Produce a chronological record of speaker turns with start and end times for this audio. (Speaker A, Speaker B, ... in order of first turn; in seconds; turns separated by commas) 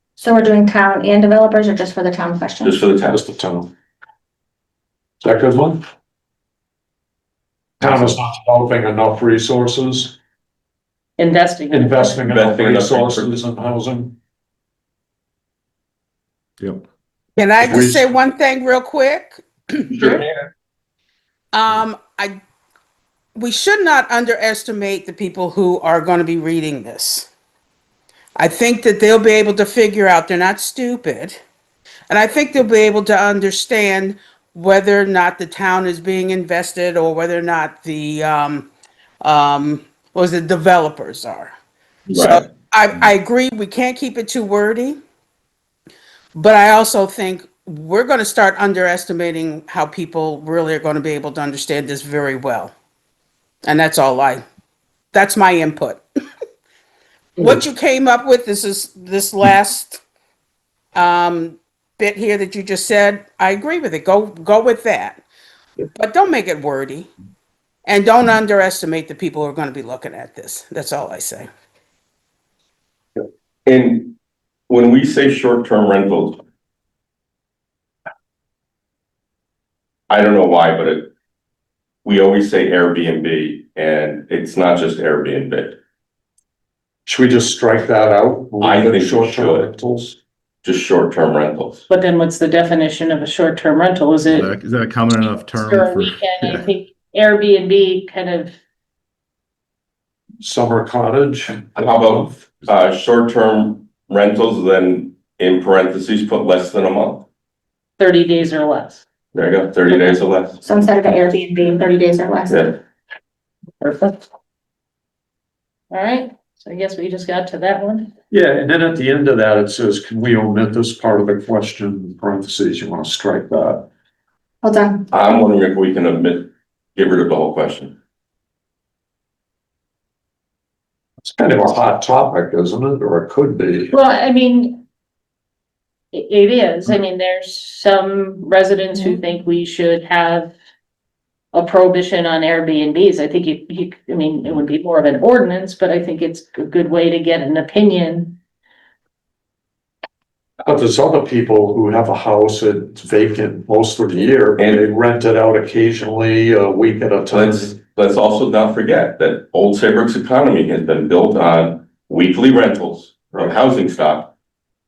Speaker A: 0.2-2.7, Speaker B: 2.6-3.2, Speaker C: 3.1-3.7, Speaker C: 5.2-5.8, Speaker C: 7.8-10.1, Speaker D: 7.8-8.1, Speaker E: 11.2-12.2, Speaker C: 11.7-14.1, Speaker B: 12.3-13.4, Speaker F: 17.4-20.2, Speaker C: 17.6-18.1, Speaker B: 19.9-20.4, Speaker F: 21.5-22.4, Speaker F: 23.3-27.3, Speaker F: 28.4-31.4, Speaker F: 32.1-38.7, Speaker F: 39.2-41.5, Speaker B: 42.1-42.4, Speaker F: 42.1-45.0, Speaker F: 46.3-52.7, Speaker F: 53.6-54.4, Speaker F: 55.1-56.0, Speaker F: 57.4-60.0, Speaker F: 60.9-65.2, Speaker F: 65.9-67.1, Speaker F: 67.8-71.5, Speaker B: 73.7-74.1, Speaker B: 74.7-76.4, Speaker B: 80.1-81.1, Speaker B: 82.0-85.8, Speaker C: 87.0-90.2, Speaker B: 88.6-89.7, Speaker B: 90.6-91.8, Speaker E: 91.9-94.5, Speaker D: 94.2-96.7, Speaker E: 95.5-98.5, Speaker C: 100.4-101.7, Speaker B: 101.8-107.2, Speaker E: 108.0-109.0, Speaker B: 109.3-110.6, Speaker A: 110.6-112.6, Speaker B: 112.5-112.8, Speaker E: 113.8-114.2, Speaker E: 115.9-118.1, Speaker C: 118.3-123.8, Speaker A: 124.6-125.0, Speaker B: 125.1-128.0, Speaker C: 131.2-133.9, Speaker E: 133.9-134.8, Speaker E: 136.1-140.5, Speaker E: 141.5-148.3, Speaker C: 150.6-157.8, Speaker B: 157.3-164.3